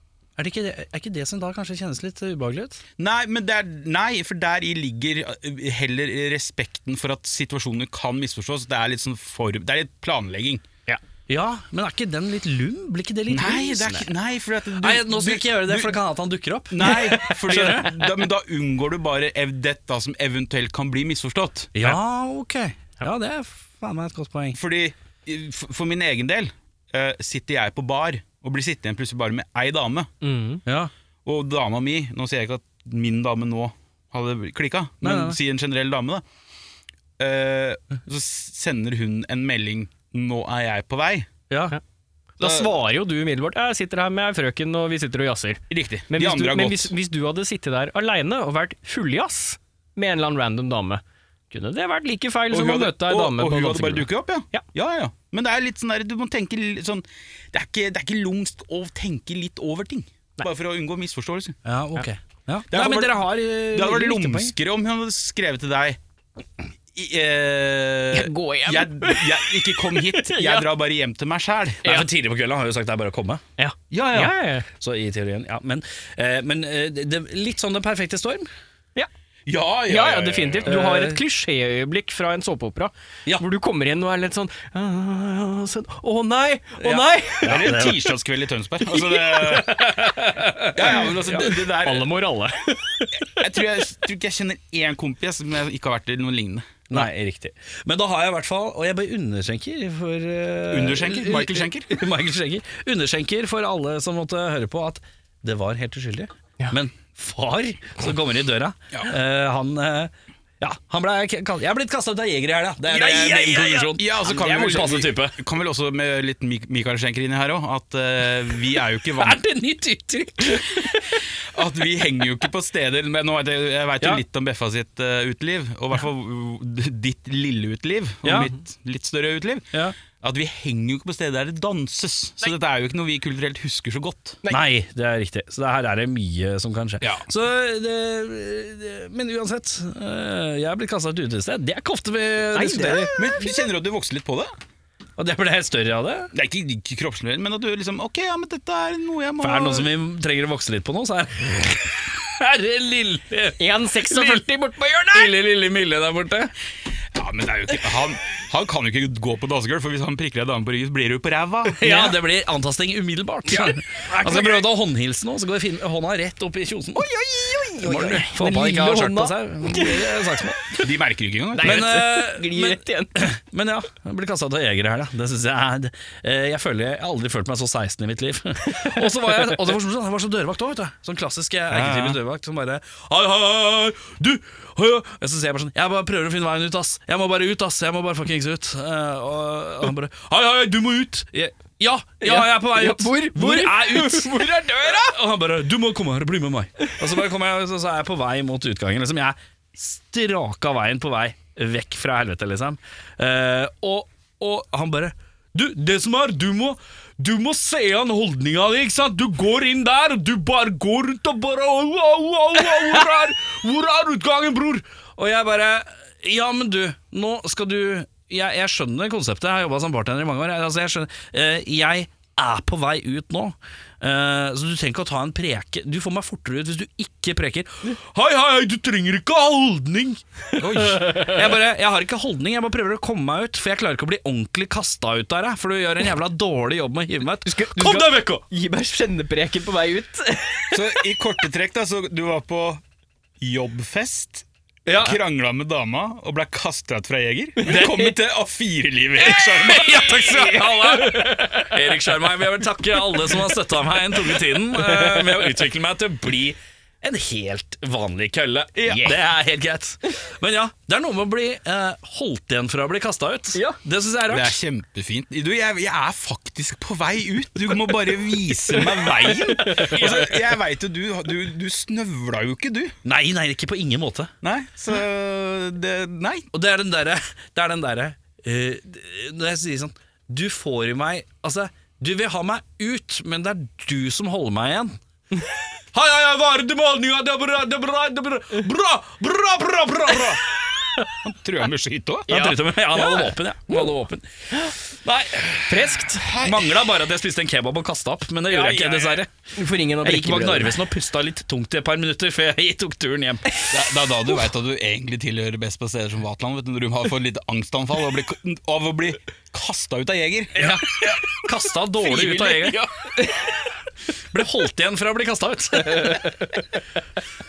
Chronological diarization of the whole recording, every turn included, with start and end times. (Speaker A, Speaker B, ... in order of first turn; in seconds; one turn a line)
Speaker A: 0.4-2.8
Speaker B: 3.0-10.6
Speaker A: 11.3-14.1
Speaker B: 13.3-16.0
Speaker A: 14.8-17.9
Speaker B: 16.7-22.0
Speaker C: 16.8-17.9
Speaker A: 21.8-24.6
Speaker B: 24.6-30.1
Speaker C: 30.2-30.6
Speaker A: 30.7-30.9
Speaker B: 31.2-36.2
Speaker A: 35.0-35.4
Speaker B: 37.2-41.3
Speaker A: 41.5-41.8
Speaker C: 42.4-54.6
Speaker B: 42.4-42.7
Speaker B: 45.7-46.9
Speaker B: 52.5-61.6
Speaker A: 61.6-64.5
Speaker B: 62.7-66.0
Speaker B: 66.9-71.8
Speaker C: 68.1-70.7
Speaker A: 71.8-73.4
Speaker C: 73.6-74.7
Speaker B: 73.9-74.3
Speaker A: 74.8-78.5
Speaker B: 79.5-80.8
Speaker C: 79.9-87.7
Speaker A: 80.7-81.2
Speaker A: 86.8-88.0
Speaker B: 87.4-89.9
Speaker C: 89.1-89.9
Speaker A: 89.4-91.6
Speaker B: 90.7-92.1
Speaker C: 91.8-93.4
Speaker B: 93.3-97.1
Speaker A: 96.9-115.4
Speaker B: 100.7-102.0
Speaker B: 112.9-119.4
Speaker A: 119.2-121.2
Speaker B: 121.5-134.4
Speaker A: 128.2-128.5
Speaker A: 134.5-143.2
Speaker B: 137.0-137.3
Speaker C: 142.5-143.2
Speaker B: 143.1-144.5
Speaker A: 145.2-146.3
Speaker B: 146.3-149.9
Speaker A: 149.4-154.4
Speaker C: 153.6-155.3
Speaker A: 155.1-156.5
Speaker B: 157.1-162.0
Speaker A: 161.7-167.1
Speaker C: 163.5-164.6
Speaker C: 166.9-170.5
Speaker A: 167.8-170.8
Speaker B: 170.8-171.9
Speaker C: 171.5-173.3
Speaker A: 171.6-238.4
Speaker B: 181.7-182.2
Speaker C: 192.2-195.2
Speaker B: 230.6-231.3
Speaker C: 237.5-241.0
Speaker B: 240.7-242.8
Speaker B: 243.4-244.4
Speaker A: 244.9-245.2
Speaker B: 245.0-250.6
Speaker A: 247.7-248.1
Speaker A: 249.2-264.6
Speaker C: 250.4-251.7
Speaker C: 254.3-255.5
Speaker B: 264.3-272.9
Speaker C: 268.8-270.1
Speaker A: 269.9-270.2
Speaker A: 273.0-274.3
Speaker B: 274.4-276.5
Speaker A: 276.5-285.0
Speaker A: 285.9-290.4
Speaker B: 291.2-292.3
Speaker A: 292.3-299.3
Speaker C: 292.3-293.9
Speaker C: 295.7-296.2
Speaker B: 296.2-296.9
Speaker B: 298.5-299.2
Speaker C: 299.5-300.8
Speaker A: 299.9-303.6
Speaker B: 303.7-311.4
Speaker A: 310.6-312.9
Speaker B: 312.0-313.1
Speaker A: 314.3-316.4
Speaker C: 315.9-316.5